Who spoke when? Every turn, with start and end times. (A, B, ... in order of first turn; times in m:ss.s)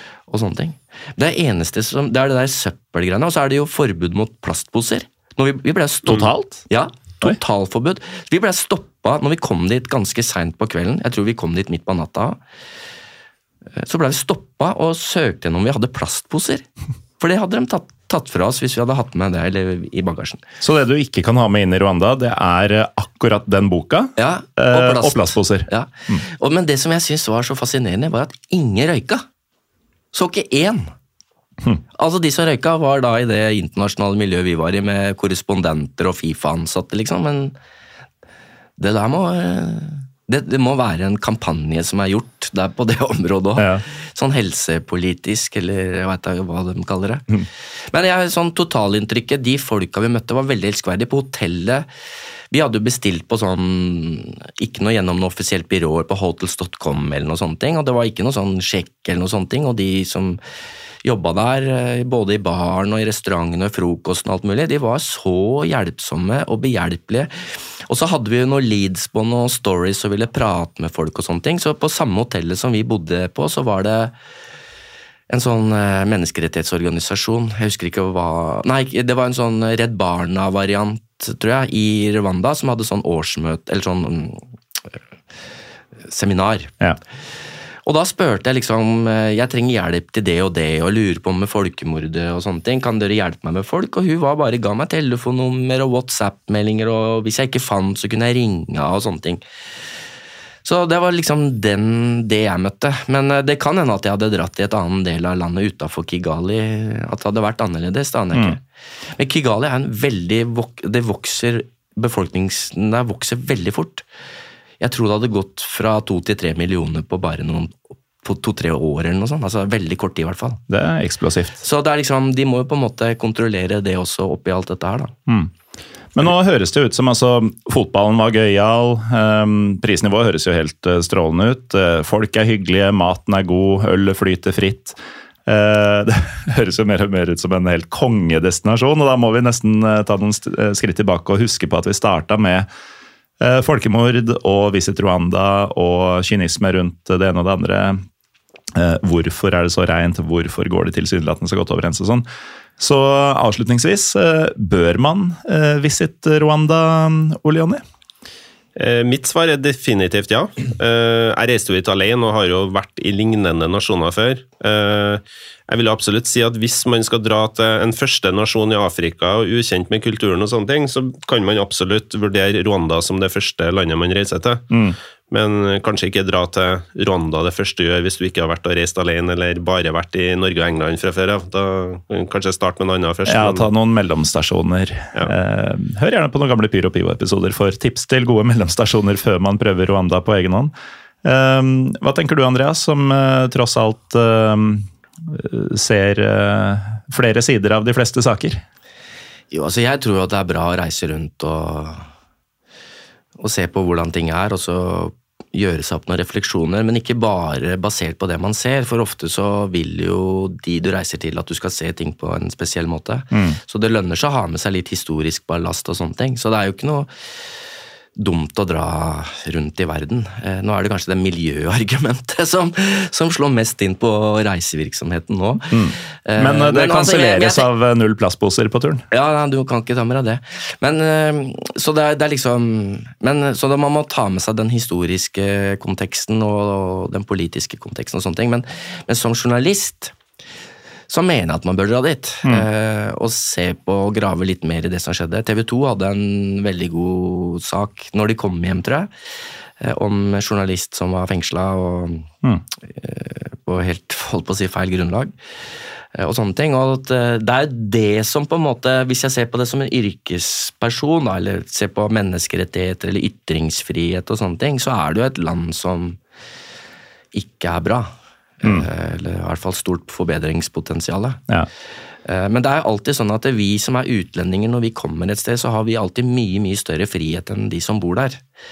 0:00.3-0:12.4 A
0:06.0-0:06.6 B
0:13.8-0:16.7 A
0:17.2-0:20.4 A
0:20.6-0:26.2 B
0:24.2-0:29.2 A
0:30.1-0:30.9 A
0:31.9-0:37.6 A
0:38.8-0:47.2 A
0:43.6-0:43.8 B
0:47.9-0:51.9 A
0:52.5-1:00.4 A
1:01.0-1:07.3 A
1:07.9-1:14.1 A
1:15.3-1:24.4 A
1:26.1-1:26.7 A
1:27.8-1:39.4 A
1:40.6-1:48.6 A
1:48.3-1:48.6 B
1:49.2-1:54.0 A
1:54.8-2:00.6 A
2:00.7-2:01.6 B
2:01.6-2:05.1 A
2:06.1-2:22.7 B
2:23.4-2:28.0 B
2:28.7-2:32.2 B
2:32.8-2:37.8 B
2:38.8-2:54.6 C
2:54.7-2:55.0 B
2:55.3-3:03.7 C
3:03.2-3:10.7 B
3:11.2-3:18.6 B
3:19.5-3:22.0 A
3:23.4-3:37.1 A
3:33.3-3:33.6 B
3:38.2-3:47.7 A
3:45.7-3:49.0 B
3:49.1-4:00.1 A
4:01.1-4:09.1 A
4:09.8-4:12.3 A
4:12.9-4:15.3 A
4:16.1-4:26.2 A
4:27.3-4:31.4 A
4:32.2-4:38.4 A